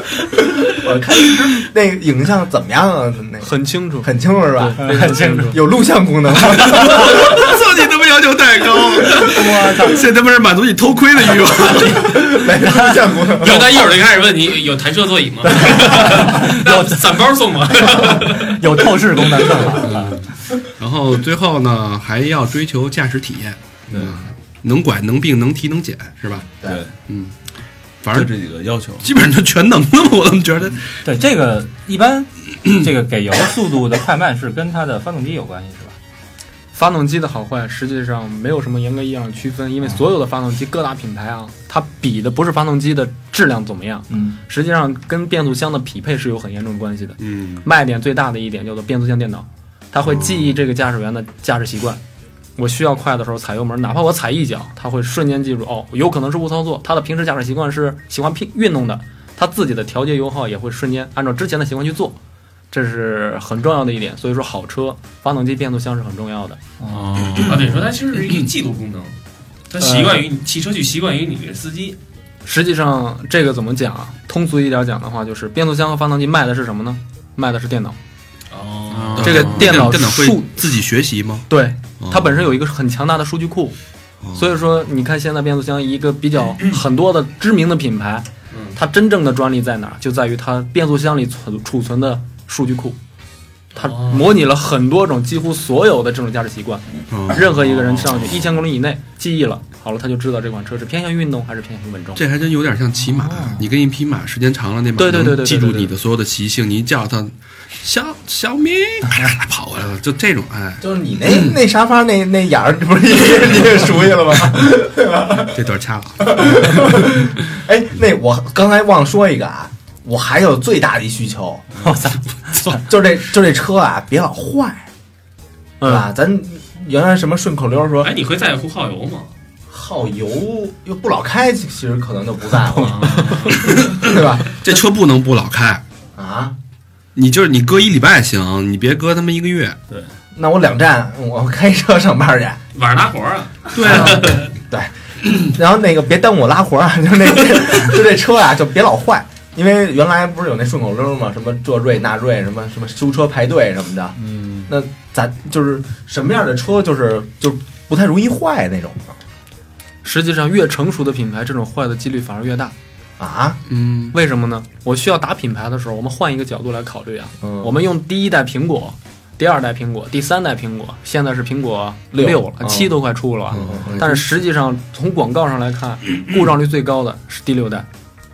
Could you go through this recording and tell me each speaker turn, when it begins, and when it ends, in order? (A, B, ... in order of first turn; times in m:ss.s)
0:00.6-0:07.3 A
0:03.4-0:05.6 B
0:04.8-0:05.5 C
0:06.5-0:12.5 D
0:09.2-0:10.0 C
0:12.1-0:13.8 A
0:13.4-0:18.6 E
0:16.2-0:17.2 C
0:17.9-0:20.2 C
0:19.9-0:20.2 F
0:20.8-0:26.5 D
0:26.6-0:26.9 F
0:27.1-0:27.3 D
0:28.0-0:28.3 D
0:28.1-0:29.1 F
0:29.0-0:30.9 D
0:31.0-0:36.0 C
0:36.7-0:52.0 B
0:44.1-0:44.4 C
0:47.2-0:47.6 D
0:50.0-0:50.6 D
0:52.6-1:02.2 B
1:02.7-1:06.6 B
1:06.8-1:07.1 C
1:06.9-1:07.8 F
1:07.4-1:09.2 E
1:09.7-1:12.0 E
1:09.8-1:10.2 B
1:12.4-1:18.0 B
1:18.5-1:19.2 E
1:18.9-1:19.9 F
1:19.2-1:21.5 D
1:19.2-1:20.7 B
1:21.5-1:23.8 B
1:22.0-1:22.4 D
1:24.2-1:24.6 D
1:24.4-1:33.0 B
1:28.5-1:28.8 E
1:33.8-1:34.3 E
1:33.8-1:42.2 B
1:37.1-1:37.6 D
1:42.2-1:51.6 D
1:43.2-1:43.6 C
1:45.0-1:45.9 B
1:50.8-1:55.6 A
1:55.5-1:57.1 D
1:56.2-2:01.7 A
2:01.8-2:02.8 C
2:02.9-2:04.9 A
2:05.8-2:06.1 B
2:05.8-2:08.1 A
2:08.0-2:09.3 E
2:09.7-2:14.4 A
2:13.1-2:13.4 F
2:13.7-2:15.8 D
2:16.2-2:16.6 A
2:17.2-2:19.8 D
2:20.4-2:22.6 A
2:22.7-2:24.5 E
2:23.7-2:24.4 D
2:23.8-2:39.2 A
2:34.2-2:34.7 F
2:40.0-2:42.8 B
2:43.2-2:43.6 A
2:43.7-2:44.1 D
2:44.1-2:57.9 B
2:47.4-2:47.7 A
2:52.1-2:53.0 A
2:53.5-2:54.0 A
2:53.5-2:54.2 D